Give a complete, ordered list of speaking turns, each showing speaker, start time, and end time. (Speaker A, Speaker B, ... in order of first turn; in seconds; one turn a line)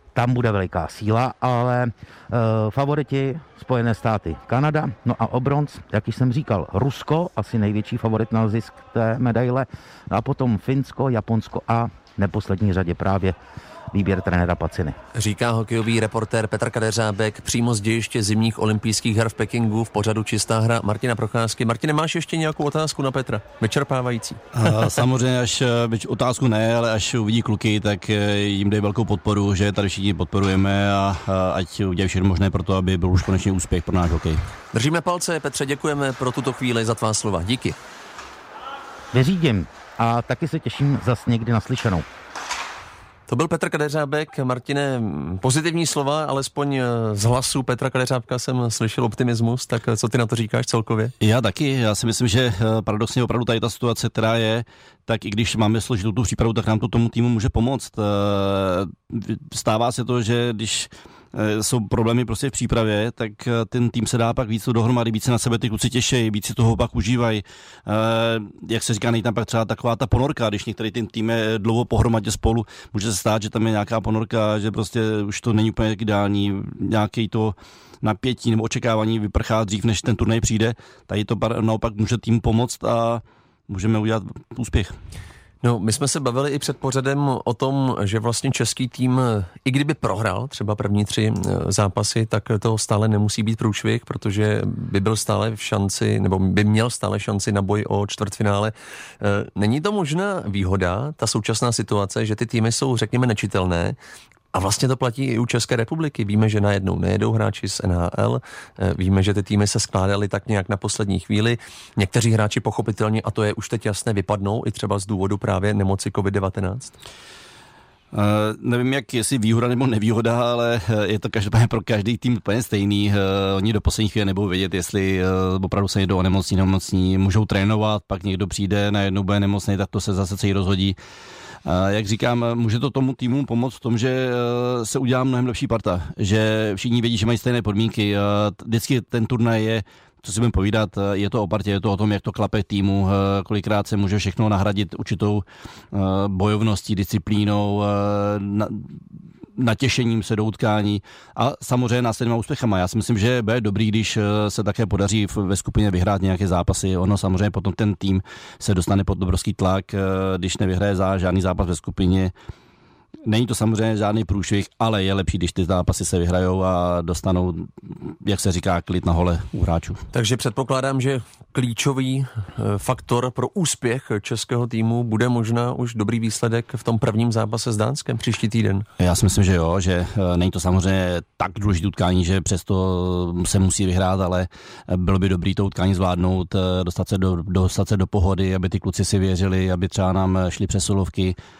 Speaker A: 0.1-13.3
Speaker A: 13.9-15.0
Speaker B: 15.1-24.8
Speaker C: 24.6-34.4
Speaker B: 34.7-37.8
Speaker A: 39.1-42.0
Speaker B: 43.3-51.1
Speaker C: 51.2-85.0
Speaker B: 85.6-104.0
Speaker B: 104.5-116.9
Speaker C: 118.1-130.9
Speaker C: 131.6-149.0
Speaker C: 149.6-162.3
Speaker C: 163.2-170.0
Speaker B: 170.1-178.8
Speaker C: 179.0-191.3